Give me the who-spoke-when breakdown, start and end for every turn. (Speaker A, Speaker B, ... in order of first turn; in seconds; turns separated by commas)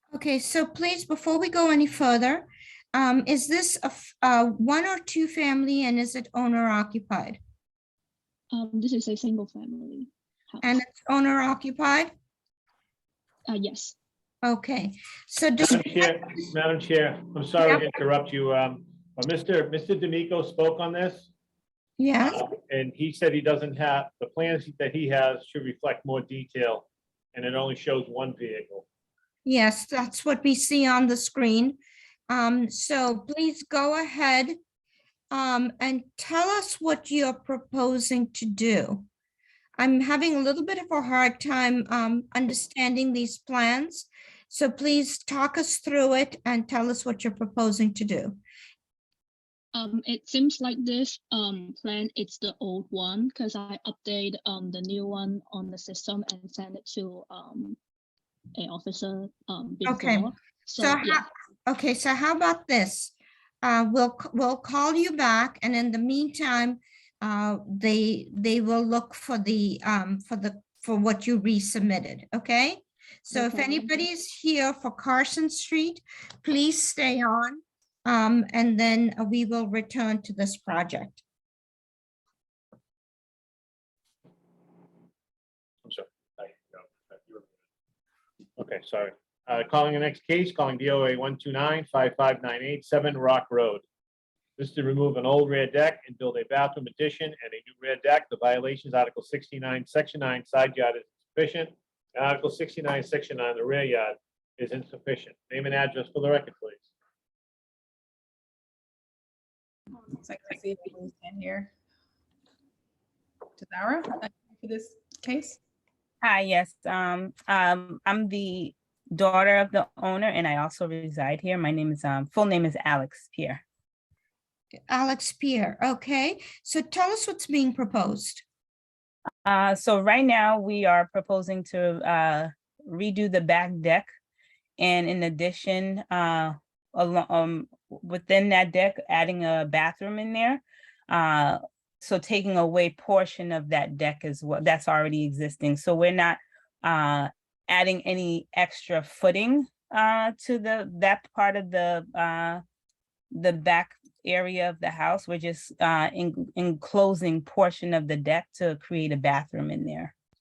Speaker A: 0.1-7.4, Speaker B: 8.5-10.8, Speaker A: 10.6-12.1, Speaker B: 13.5-13.9, Speaker A: 14.4-16.4, Speaker C: 15.6-21.3, Speaker A: 17.6-17.9, Speaker A: 22.0-22.4, Speaker C: 22.2-28.9, Speaker A: 29.4-31.8, Speaker A: 32.3-34.6, Speaker A: 35.3-39.0, Speaker A: 39.8-48.4, Speaker B: 49.7-57.8, Speaker B: 58.5-61.2, Speaker A: 59.8-81.2, Speaker B: 73.3-73.9, Speaker C: 85.8-87.4, Speaker C: 88.6-93.8, Speaker C: 94.6-106.8, Speaker D: 110.0-111.7, Speaker D: 113.6-115.6, Speaker E: 116.2-123.6, Speaker A: 124.9-128.4, Speaker E: 129.4-134.1, Speaker E: 134.8-152.6, Speaker E: 153.3-160.1